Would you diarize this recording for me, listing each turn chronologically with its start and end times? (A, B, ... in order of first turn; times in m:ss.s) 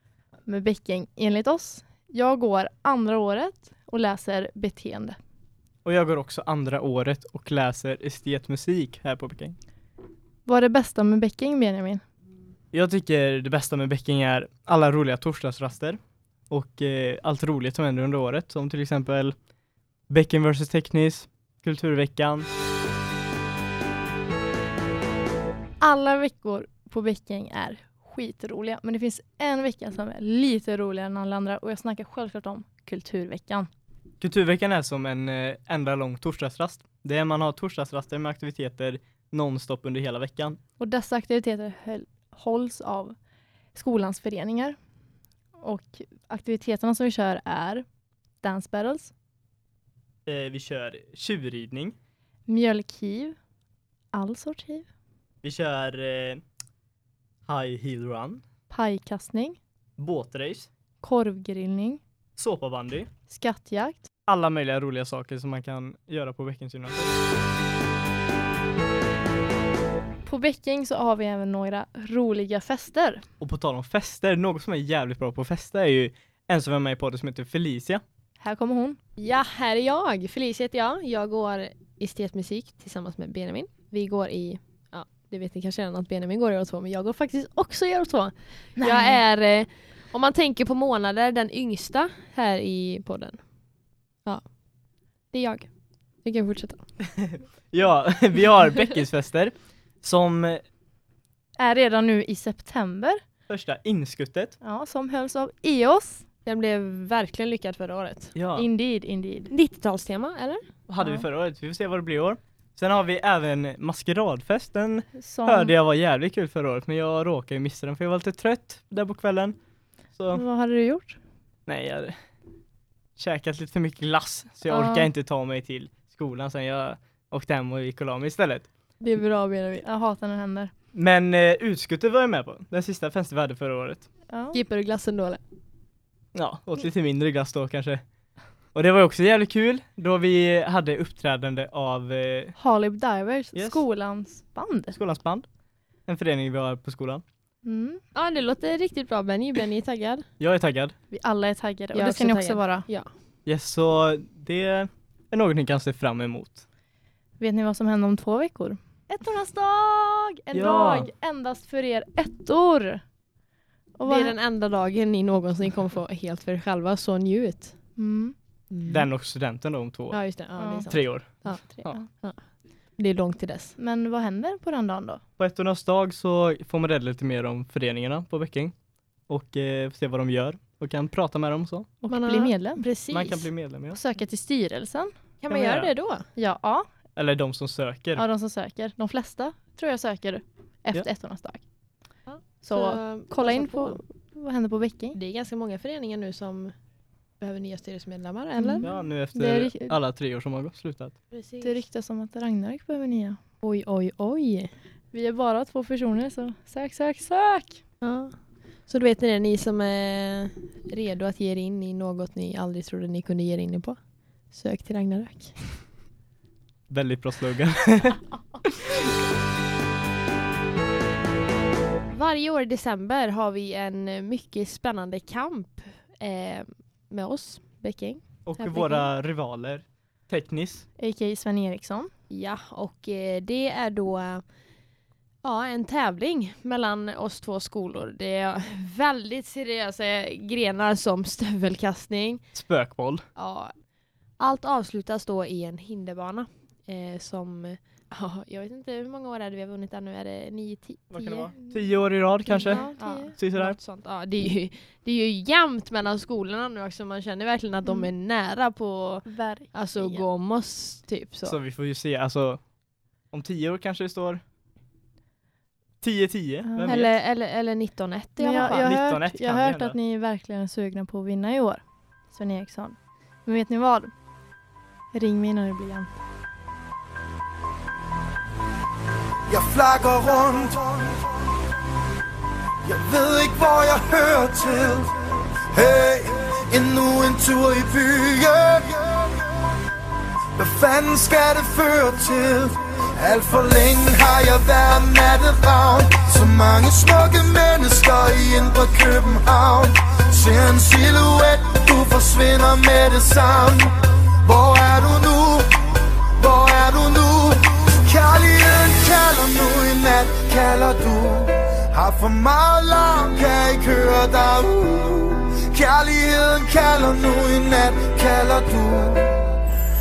0:00.4-0:05.2 A
0:05.8-0:09.6 B
0:10.4-0:12.0 A
0:12.7-0:16.0 B
0:16.5-0:19.3 B
0:20.1-0:22.5 B
0:25.8-0:33.7 A
0:34.2-0:40.6 B
0:40.8-0:43.2 A
0:43.7-0:44.8 A
0:45.6-0:47.8 A
0:48.4-0:49.1 A
0:50.2-0:52.0 B
0:52.4-0:53.4 A
0:54.1-0:54.9 A
0:55.4-0:56.4 B
0:57.4-0:58.4 B
0:58.7-0:59.6 A
1:00.0-1:00.7 B
1:01.0-1:02.0 A
1:02.4-1:03.1 B
1:03.3-1:04.1 A
1:04.3-1:07.1 B
1:10.2-1:13.2 A
1:13.4-1:18.0 B
1:18.4-1:19.0 A
1:19.2-1:33.4 C
1:28.8-1:29.2 A
1:34.2-1:34.5 C
1:35.3-1:35.7 C
1:36.2-1:36.8 C
1:37.1-1:40.6 B
1:41.6-1:43.2 A
1:43.5-1:44.6 B
1:44.6-1:46.2 A
1:46.4-1:48.3 C
1:48.4-1:48.7 B
1:48.5-1:49.5 A
1:49.5-1:50.6 C
1:50.9-1:59.6 B
1:51.0-1:51.2 A
1:55.2-1:55.7 A
2:00.1-2:00.4 B
2:00.3-2:01.2 A
2:01.7-2:02.2 B
2:03.2-2:08.7 B
2:04.7-2:05.1 A
2:09.0-2:09.8 C
2:09.8-2:10.7 A
2:10.9-2:14.1 B
2:14.3-2:14.6 A
2:14.5-2:15.4 C
2:16.3-2:18.0 B
2:18.7-2:22.5 B
2:22.6-2:25.0 A
2:23.5-2:23.8 B
2:24.9-2:25.4 B
2:26.1-2:27.2 B
2:27.6-2:28.0 A
2:28.1-2:30.2 C
2:30.4-2:30.9 B
2:31.1-2:32.9 A
2:31.9-2:33.1 C
2:33.4-2:36.6 B
2:37.4-2:43.0 A
2:40.5-2:41.1 B
2:44.0-2:44.4 A
2:44.0-2:47.7 C
2:48.0-2:48.3 A
2:48.7-2:49.0 C
2:48.8-2:50.3 B
2:50.1-2:52.4 C
2:50.6-2:52.1 A
2:50.9-2:52.0 B
2:53.0-2:53.7 C
2:53.8-2:55.2 A
2:55.4-2:58.7 B
2:59.3-3:01.9 B
3:02.0-3:02.8 A
3:02.1-3:03.5 C
3:03.1-3:04.0 B
3:03.9-3:05.1 A
3:05.4-3:06.3 C
3:05.5-3:05.9 B
3:06.4-3:06.9 A
3:07.2-3:08.2 B
3:08.2-3:11.6 A
3:12.3-3:14.0 C
3:12.7-3:15.2 A
3:15.1-3:16.7 C
3:17.4-3:18.9 C
3:18.6-3:20.0 A
3:18.8-3:21.1 B
3:21.3-3:21.8 C
3:21.6-3:23.4 A
3:23.6-3:24.7 C
3:25.1-3:27.8 A
3:28.0-3:28.3 C
3:28.9-3:35.6 C
3:36.9-3:39.1 B
3:42.1-3:49.1 C
3:48.4-3:50.8 B
3:51.0-3:52.1 A
3:52.3-3:54.4 C
3:55.4-4:02.5 C
4:02.5-4:03.2 B
4:03.4-4:03.7 C
4:04.4-4:11.5 C
4:11.1-4:12.8 B
4:12.5-4:13.4 A
4:12.6-4:21.6 C
4:13.4-4:13.8 B
4:17.8-4:18.1 A
4:19.2-4:20.2 A
4:21.4-4:22.6 B
4:23.3-4:24.4 B
4:26.0-4:27.1 B
4:26.6-4:27.0 A
4:26.8-4:28.9 C
4:28.4-4:34.1 A
4:28.6-4:30.0 B
4:35.1-4:36.2 A
4:39.5-4:41.2 D
4:42.8-4:49.5 D
4:50.6-5:05.8 D
5:06.4-5:19.5 D